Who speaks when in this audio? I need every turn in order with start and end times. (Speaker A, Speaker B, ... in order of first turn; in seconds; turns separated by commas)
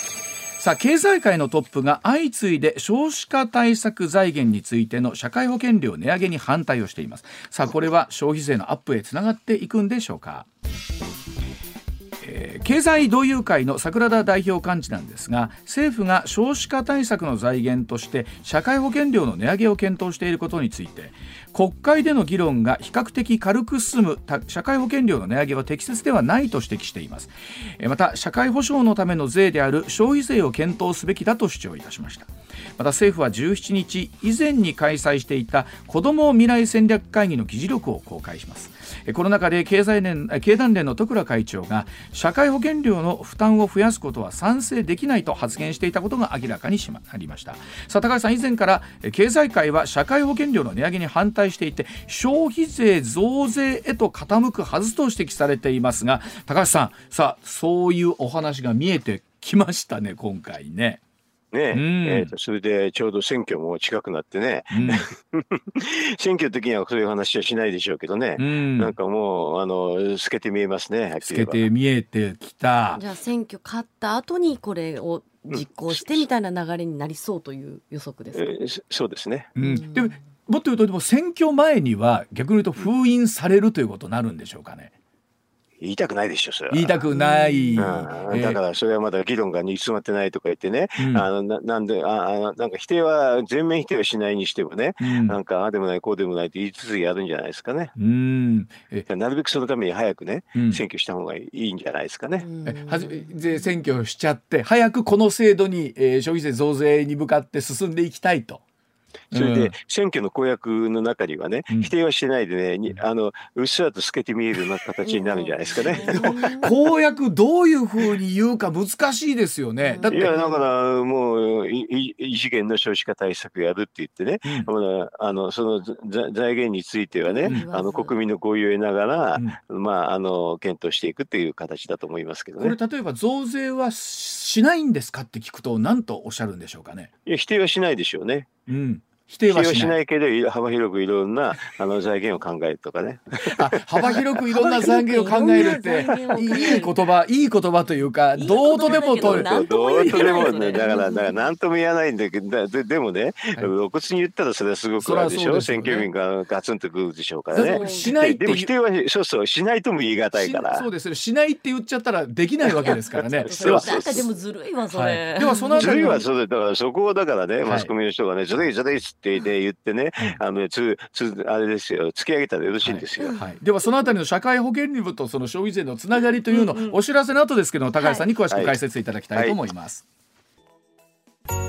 Speaker A: 0.6-10.5, Speaker A: 12.2-61.0, Speaker B: 61.5-71.7, Speaker A: 61.7-62.3, Speaker A: 64.7-65.1, Speaker A: 68.4-68.9, Speaker A: 71.2-73.0, Speaker C: 73.0-78.5, Speaker B: 75.5-76.3, Speaker B: 78.3-79.5, Speaker A: 79.5-84.9, Speaker C: 79.6-80.2, Speaker B: 85.8-86.9, Speaker A: 86.7-88.6, Speaker C: 87.1-88.4, Speaker B: 87.8-97.9, Speaker A: 91.0-91.3, Speaker A: 95.0-95.4, Speaker A: 98.0-99.1, Speaker B: 99.1-102.5, Speaker A: 100.5-100.8, Speaker C: 102.4-103.7, Speaker A: 102.6-108.6, Speaker B: 109.3-116.7, Speaker A: 109.3-109.8, Speaker C: 115.0-116.7, Speaker A: 116.2-120.4, Speaker C: 119.8-120.6, Speaker B: 120.1-132.8, Speaker A: 124.4-124.7, Speaker C: 127.2-128.2, Speaker A: 132.6-137.1, Speaker B: 137.2-138.5, Speaker A: 138.7-140.0, Speaker B: 139.5-144.2, Speaker A: 143.5-150.8, Speaker C: 144.0-146.9, Speaker C: 148.3-151.4, Speaker B: 148.7-160.9, Speaker A: 155.0-156.1, Speaker A: 157.5-158.7, Speaker C: 157.5-158.1, Speaker A: 160.3-163.9, Speaker B: 162.6-164.3, Speaker C: 162.8-166.2, Speaker A: 164.9-166.2, Speaker B: 165.8-173.4, Speaker A: 167.6-167.9, Speaker A: 172.8-180.0, Speaker C: 173.2-173.5, Speaker C: 176.5-177.0, Speaker C: 178.0-178.2, Speaker B: 178.5-178.8